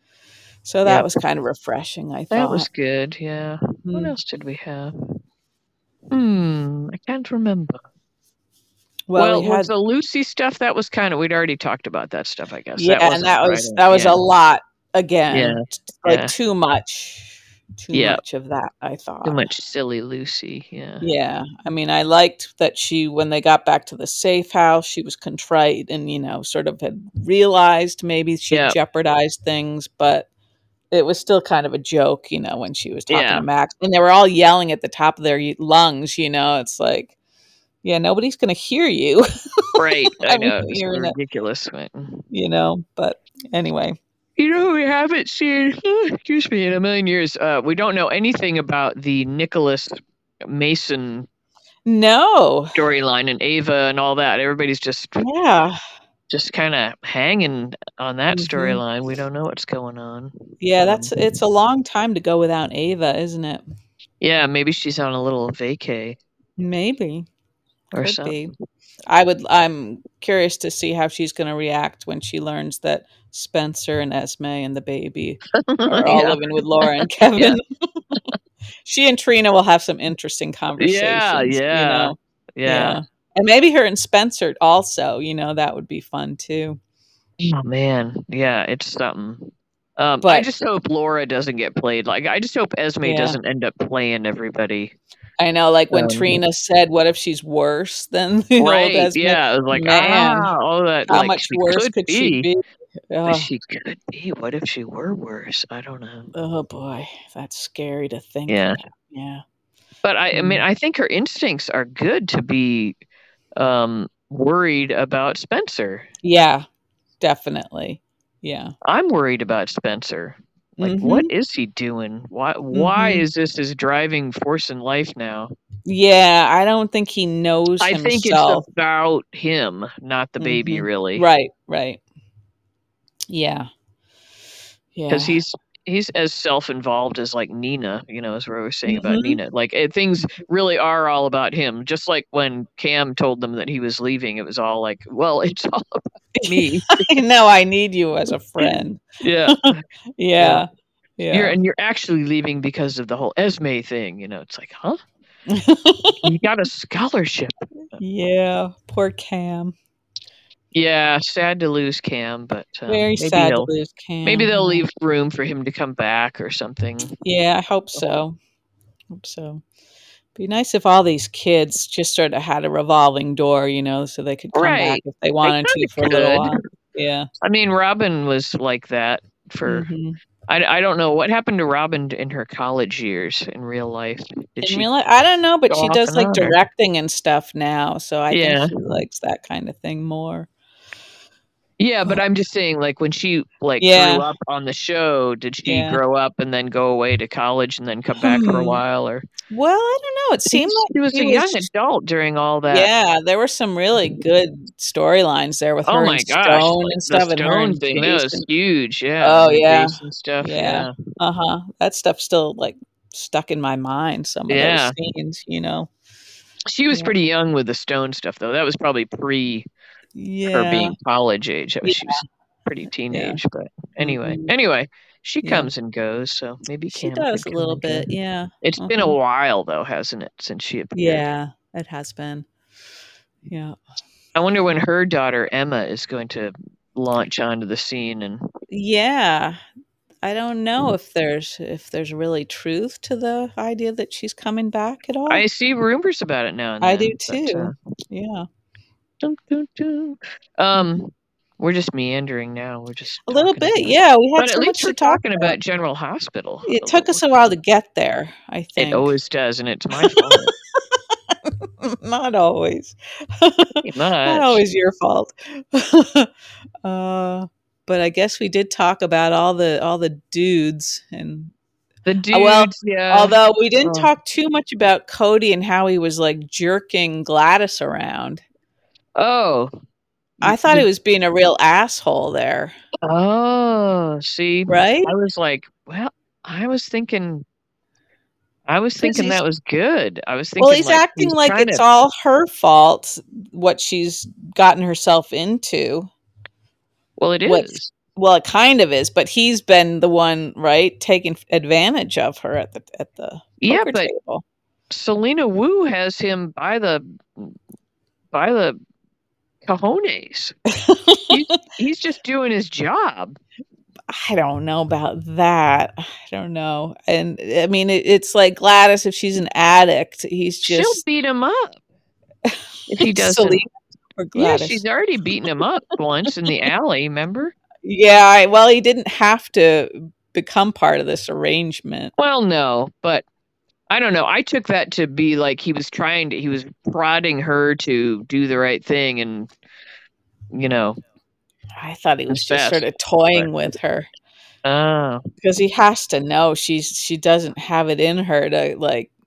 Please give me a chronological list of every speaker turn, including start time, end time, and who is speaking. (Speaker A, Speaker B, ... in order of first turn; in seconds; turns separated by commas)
Speaker A: 0.6-2.7, Speaker B: 0.8-1.1, Speaker B: 2.3-5.1, Speaker A: 3.9-4.2, Speaker B: 6.1-7.8, Speaker A: 9.1-9.7, Speaker B: 9.2-14.2, Speaker A: 12.8-19.4, Speaker B: 15.3-16.3, Speaker B: 17.9-18.2, Speaker B: 19.2-21.0, Speaker A: 21.0-30.3, Speaker B: 28.5-28.8, Speaker A: 30.9-37.1, Speaker B: 33.1-33.4, Speaker A: 37.8-39.2, Speaker B: 39.8-42.2, Speaker A: 40.1-41.1, Speaker A: 42.3-44.0, Speaker B: 44.4-51.3, Speaker A: 51.9-52.8, Speaker B: 52.7-55.2, Speaker A: 55.2-55.8, Speaker B: 56.3-61.1, Speaker A: 58.3-58.8, Speaker A: 60.6-63.6, Speaker B: 64.2-66.2, Speaker A: 66.6-67.3, Speaker B: 67.9-68.4, Speaker A: 68.0-68.5, Speaker A: 69.1-78.2, Speaker B: 75.7-76.8, Speaker A: 78.8-86.8, Speaker B: 80.8-83.0, Speaker B: 87.4-94.9, Speaker A: 90.2-90.5, Speaker A: 93.0-93.4, Speaker A: 95.4-100.5, Speaker B: 95.9-96.3, Speaker B: 98.6-102.5, Speaker A: 101.1-103.5, Speaker B: 103.2-106.3, Speaker A: 106.3-109.4, Speaker B: 108.5-108.8, Speaker B: 110.0-113.0, Speaker A: 110.3-110.6, Speaker B: 113.5-116.1, Speaker A: 116.2-116.7, Speaker A: 117.2-118.7, Speaker B: 118.8-125.5, Speaker A: 120.8-121.3, Speaker A: 122.7-123.2, Speaker A: 125.8-128.6, Speaker B: 127.8-131.2, Speaker A: 130.4-132.0, Speaker A: 133.3-133.7, Speaker A: 134.9-135.4, Speaker B: 135.1-147.0, Speaker A: 138.9-139.4, Speaker A: 146.4-149.5, Speaker B: 148.6-149.7, Speaker A: 150.2-151.6, Speaker B: 150.4-150.6, Speaker B: 151.3-155.0, Speaker A: 155.5-156.3, Speaker B: 156.2-157.5, Speaker A: 157.9-159.7, Speaker B: 160.7-163.7, Speaker A: 162.9-164.8, Speaker B: 164.2-167.1, Speaker A: 167.2-168.4, Speaker A: 169.1-169.6, Speaker A: 170.3-177.3, Speaker B: 174.5-176.6, Speaker B: 177.4-179.9, Speaker A: 179.7-180.2, Speaker B: 180.5-184.9, Speaker A: 184.6-190.5, Speaker B: 185.7-186.6, Speaker B: 188.3-188.7, Speaker B: 191.8-199.2, Speaker A: 193.8-194.3, Speaker A: 195.7-196.0, Speaker A: 198.2-198.8, Speaker A: 199.5-201.7, Speaker B: 200.5-202.9, Speaker A: 202.7-208.4, Speaker B: 205.8-210.9, Speaker A: 209.2-215.9, Speaker B: 214.5-214.9, Speaker B: 216.7-219.7, Speaker A: 220.1-220.9, Speaker B: 220.5-228.1, Speaker A: 221.8-222.2, Speaker A: 223.1-223.4, Speaker A: 224.0-224.5, Speaker A: 225.4-225.7, Speaker A: 226.9-229.2, Speaker B: 228.6-231.2, Speaker A: 230.9-232.5, Speaker A: 233.5-233.8, Speaker B: 234.3-238.4, Speaker A: 238.7-239.6, Speaker A: 240.2-245.4, Speaker B: 245.3-247.7, Speaker A: 246.8-248.5, Speaker B: 249.2-257.2, Speaker A: 253.3-255.6, Speaker A: 256.6-259.1, Speaker B: 258.8-260.5, Speaker A: 259.9-260.5, Speaker A: 261.3-266.3, Speaker B: 263.8-264.6, Speaker A: 266.8-271.5, Speaker B: 272.0-274.1, Speaker A: 272.3-278.4, Speaker B: 279.2-279.7, Speaker B: 280.4-280.9, Speaker A: 280.4-282.7, Speaker B: 283.0-287.4, Speaker A: 284.7-285.1, Speaker B: 288.7-291.8, Speaker A: 289.0-289.4, Speaker A: 290.6-296.1, Speaker B: 297.2-297.9, Speaker A: 297.4-304.4, Speaker B: 303.6-304.1, Speaker B: 304.9-307.5, Speaker B: 308.3-308.8, Speaker B: 309.6-310.5, Speaker A: 310.8-311.6, Speaker B: 311.3-313.4, Speaker A: 314.1-321.0, Speaker B: 320.6-321.8, Speaker A: 322.4-324.8, Speaker B: 322.9-323.6, Speaker B: 324.3-327.5, Speaker A: 327.8-332.1, Speaker B: 332.2-333.2, Speaker B: 333.9-339.5, Speaker B: 340.5-341.0, Speaker A: 341.8-344.1, Speaker B: 342.3-343.5, Speaker B: 344.6-345.2, Speaker A: 345.4-349.1